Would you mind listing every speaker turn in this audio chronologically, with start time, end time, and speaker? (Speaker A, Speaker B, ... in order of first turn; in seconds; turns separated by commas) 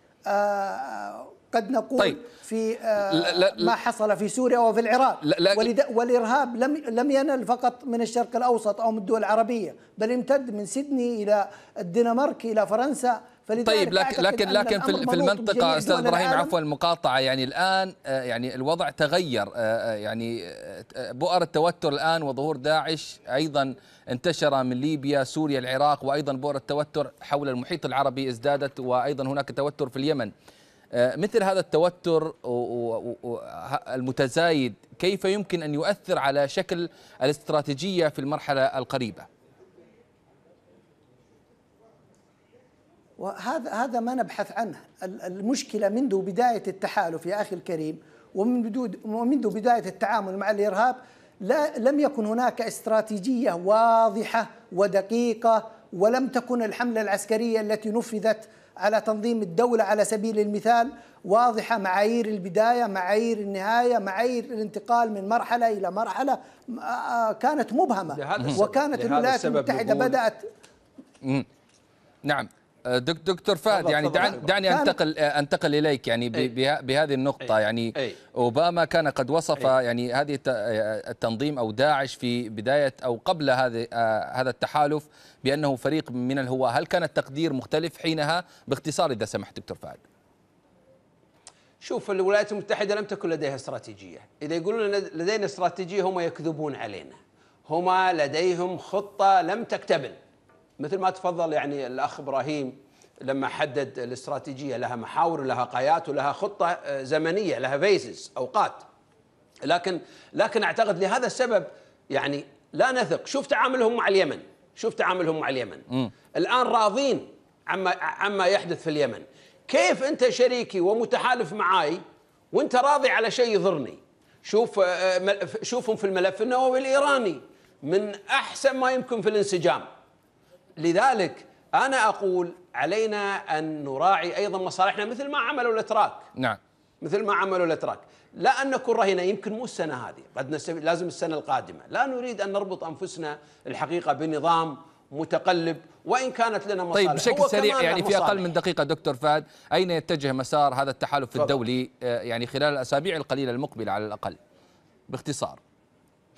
Speaker A: 0.3-16.5, Speaker B: 3.1-3.7, Speaker B: 5.2-5.7, Speaker B: 13.6-30.3, Speaker B: 30.9-39.3, Speaker A: 43.2-70.5, Speaker C: 68.1-70.2, Speaker B: 72.2-90.0, Speaker C: 73.7-74.5, Speaker A: 74.6-75.0, Speaker C: 91.8-100.2, Speaker C: 100.8-108.8, Speaker C: 109.6-122.0, Speaker C: 122.5-129.9, Speaker C: 130.8-136.3, Speaker C: 137.0-148.5, Speaker B: 146.9-154.4, Speaker B: 155.1-155.6